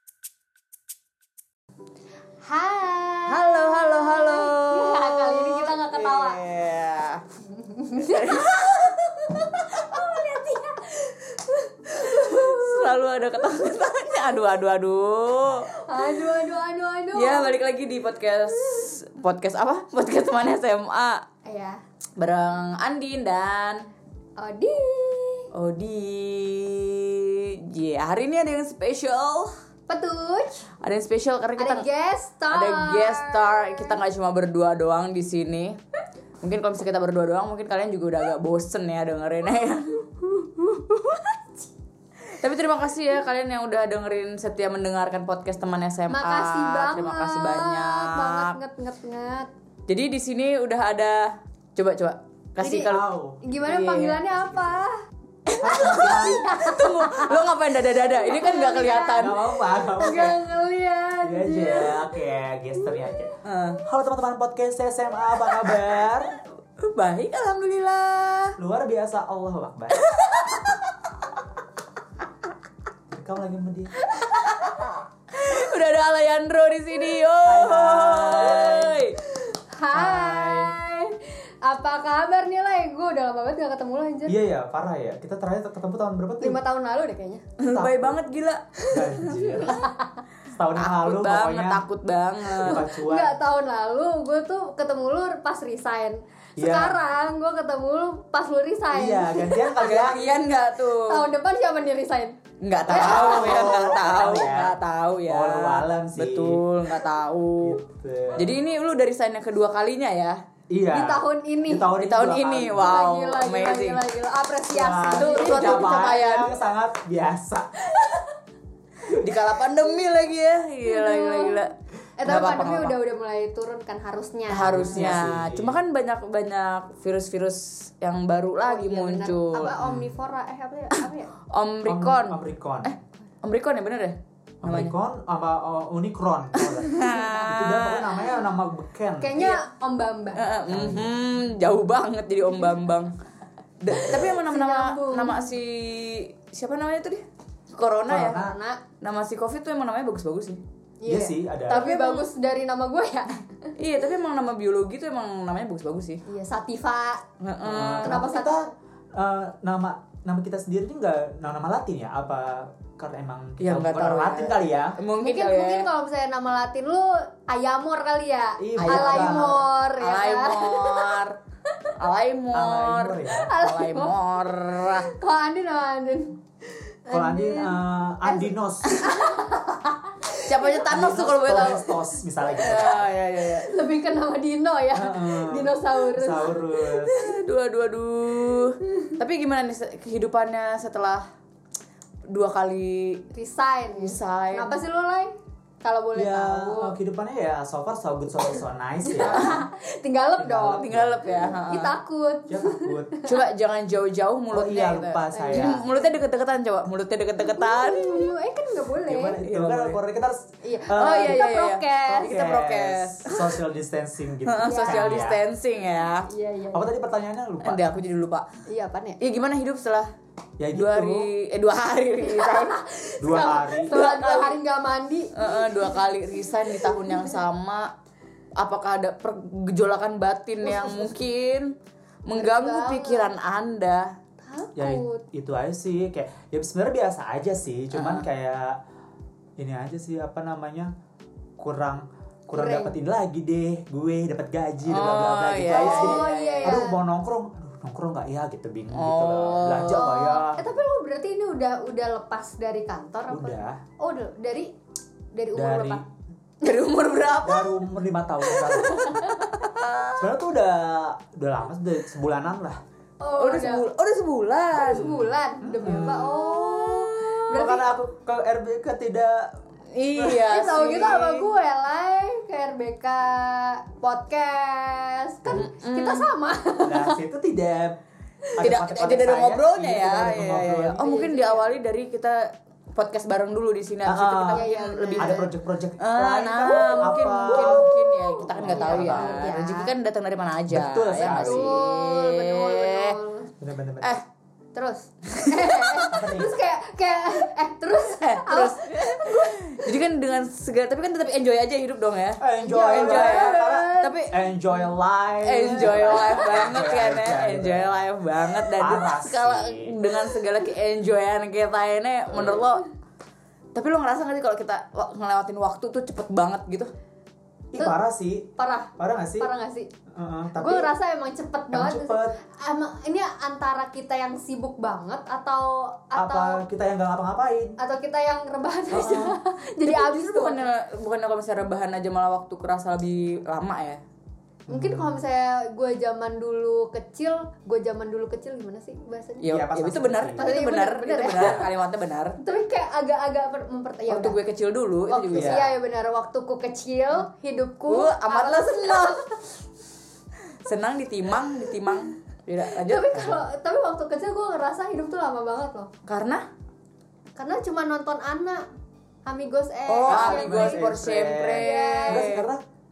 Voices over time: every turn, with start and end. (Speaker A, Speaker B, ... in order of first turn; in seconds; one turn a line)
Speaker A: 2.4-6.4
Speaker B: 3.3-7.2
Speaker A: 7.5-12.9
Speaker B: 7.9-8.9
Speaker B: 11.9-15.8
Speaker A: 15.8-17.6
Speaker B: 17.1-21.2
Speaker A: 21.4-21.8
Speaker B: 22.2-23.9
Speaker A: 24.4-25.5
Speaker B: 25.5-29.6
Speaker A: 29.9-30.7
Speaker B: 30.8-31.9
Speaker A: 31.6-34.0
Speaker B: 32.5-35.8
Speaker B: 36.4-41.4
Speaker B: 42.3-48.5
Speaker A: 46.1-49.5
Speaker B: 49.9-53.0
Speaker A: 52.6-54.9
Speaker C: 52.9-54.8
Speaker B: 53.6-54.2
Speaker B: 55.5-59.4
Speaker C: 55.6-56.5
Speaker A: 55.8-62.2
Speaker C: 59.1-60.4
Speaker C: 61.2-63.3
Speaker B: 63.4-63.8
Speaker C: 63.8-66.3
Speaker B: 66.8-68.6
Speaker C: 68.6-70.1
Speaker B: 70.0-70.8
Speaker C: 73.1-74.0
Speaker B: 74.2-79.2
Speaker C: 77.4-79.0
Speaker A: 79.7-84.4
Speaker C: 79.9-80.7
Speaker C: 84.2-86.6
Speaker A: 86.4-87.4
Speaker B: 87.6-89.8
Speaker C: 87.7-88.2
Speaker C: 88.9-89.8
Speaker A: 89.6-90.2
Speaker C: 90.5-91.8
Speaker B: 90.8-92.8
Speaker A: 92.5-99.8
Speaker C: 92.6-93.4
Speaker C: 96.6-97.0
Speaker C: 98.9-100.4
Speaker B: 99.8-101.3
Speaker A: 100.9-102.3
Speaker B: 102.6-107.8
Speaker C: 102.9-106.6
Speaker A: 102.9-103.8
Speaker C: 107.6-108.6
Speaker B: 108.3-110.4
Speaker C: 110.7-113.0
Speaker A: 110.9-111.9
Speaker B: 111.9-114.0
Speaker A: 112.8-116.2
Speaker C: 114.7-117.8
Speaker B: 115.1-116.5
Speaker A: 117.9-118.2
Speaker B: 119.0-121.7
Speaker A: 120.8-121.6
Speaker A: 122.2-125.2
Speaker B: 122.2-123.0
Speaker B: 124.5-129.7
Speaker C: 124.6-125.8
Speaker A: 128.7-131.3
Speaker C: 129.8-130.1
Speaker B: 130.9-134.9
Speaker C: 131.8-132.9
Speaker C: 134.6-139.5
Speaker B: 136.5-138.2
Speaker A: 137.1-137.3
Speaker A: 139.2-140.5
Speaker B: 140.3-143.1
Speaker C: 140.7-141.1
Speaker B: 143.8-148.4
Speaker A: 144.1-145.5
Speaker C: 148.1-148.5
Speaker A: 148.1-148.8
Speaker B: 149.0-150.6
Speaker A: 151.0-153.7
Speaker C: 151.1-151.9
Speaker B: 151.7-152.2
Speaker B: 153.8-156.2
Speaker A: 156.2-157.2
Speaker B: 157.4-158.2
Speaker C: 157.6-165.0
Speaker A: 158.0-158.7
Speaker B: 163.6-165.9
Speaker A: 165.2-171.2
Speaker C: 168.6-169.6
Speaker B: 168.8-171.4
Speaker B: 172.0-175.1
Speaker C: 172.5-173.5
Speaker A: 173.3-180.8
Speaker C: 177.1-179.1
Speaker B: 180.4-181.9
Speaker C: 180.8-183.1
Speaker B: 182.5-183.7
Speaker A: 183.5-187.1
Speaker C: 184.9-187.2
Speaker B: 187.1-191.3
Speaker B: 192.3-193.2
Speaker A: 193.3-196.9
Speaker B: 193.9-194.8
Speaker C: 196.1-199.6
Speaker A: 199.1-203.4
Speaker B: 199.2-199.7
Speaker C: 200.4-201.5
Speaker B: 200.8-201.9
Speaker C: 202.5-203.1
Speaker B: 203.2-208.3
Speaker C: 204.5-205.8
Speaker A: 205.3-206.1
Speaker A: 207.4-209.4
Speaker C: 209.0-211.4
Speaker B: 209.4-210.0
Speaker A: 210.6-212.4
Speaker B: 210.9-213.4
Speaker C: 212.1-215.4
Speaker B: 214.4-216.3
Speaker A: 214.6-215.3
Speaker A: 216.3-216.9
Speaker C: 216.7-218.0
Speaker B: 217.6-218.5
Speaker A: 218.7-219.2
Speaker B: 219.2-220.1
Speaker C: 220.6-221.3
Speaker B: 220.7-222.8
Speaker A: 222.2-227.4
Speaker C: 223.2-224.0
Speaker B: 223.9-224.6
Speaker B: 225.3-227.9
Speaker B: 228.6-231.7
Speaker A: 230.6-231.2
Speaker B: 232.2-234.1
Speaker A: 232.3-233.3
Speaker A: 234.4-235.2
Speaker C: 234.8-238.8
Speaker B: 237.9-238.2
Speaker C: 239.6-240.9
Speaker C: 241.6-250.6
Speaker A: 242.5-242.9
Speaker B: 244.8-246.8
Speaker A: 245.7-247.0
Speaker B: 248.9-250.1
Speaker A: 249.9-254.7
Speaker C: 253.3-253.8
Speaker A: 255.3-256.0
Speaker C: 255.5-256.0
Speaker B: 256.6-257.8
Speaker C: 257.4-259.4
Speaker B: 258.6-260.2
Speaker A: 258.6-259.4
Speaker C: 260.2-262.8
Speaker A: 263.2-263.8
Speaker B: 263.4-265.1
Speaker A: 264.7-267.9
Speaker C: 264.8-266.5
Speaker B: 265.9-267.4
Speaker C: 267.5-269.6
Speaker B: 269.9-271.5
Speaker C: 270.2-270.4
Speaker A: 270.3-277.2
Speaker B: 275.5-276.3
Speaker C: 276.8-278.0
Speaker C: 278.6-281.1
Speaker B: 278.6-285.4
Speaker A: 281.0-281.7
Speaker C: 284.1-284.6
Speaker A: 284.5-285.5
Speaker C: 285.2-287.9
Speaker B: 286.0-293.2
Speaker A: 286.6-289.9
Speaker C: 288.5-289.5
Speaker C: 290.7-291.8
Speaker A: 291.2-293.5
Speaker C: 293.6-294.1
Speaker A: 294.7-299.9
Speaker B: 295.3-296.1
Speaker C: 296.1-296.5
Speaker B: 298.1-304.3
Speaker C: 302.4-310.0
Speaker A: 302.6-304.2
Speaker B: 305.4-312.9
Speaker A: 305.9-306.2
Speaker C: 312.3-312.6
Speaker B: 313.7-316.9
Speaker C: 317.7-319.5
Speaker A: 318.6-319.9
Speaker C: 320.1-320.9
Speaker A: 320.6-326.6
Speaker C: 321.7-322.4
Speaker C: 326.1-327.8
Speaker A: 327.8-330.7
Speaker C: 328.9-329.4
Speaker B: 329.8-334.0
Speaker C: 334.7-335.2
Speaker A: 334.7-339.5
Speaker B: 339.4-342.4
Speaker C: 339.4-340.4
Speaker A: 340.4-341.7
Speaker A: 342.4-344.4
Speaker B: 344.1-345.7
Speaker A: 345.1-349.6
Speaker C: 345.3-345.7
Speaker B: 347.9-349.2
Speaker B: 350.6-353.3
Speaker A: 352.7-355.9
Speaker B: 356.1-356.4
Speaker A: 357.4-358.7
Speaker A: 359.2-362.3
Speaker B: 359.9-362.4
Speaker C: 360.0-362.6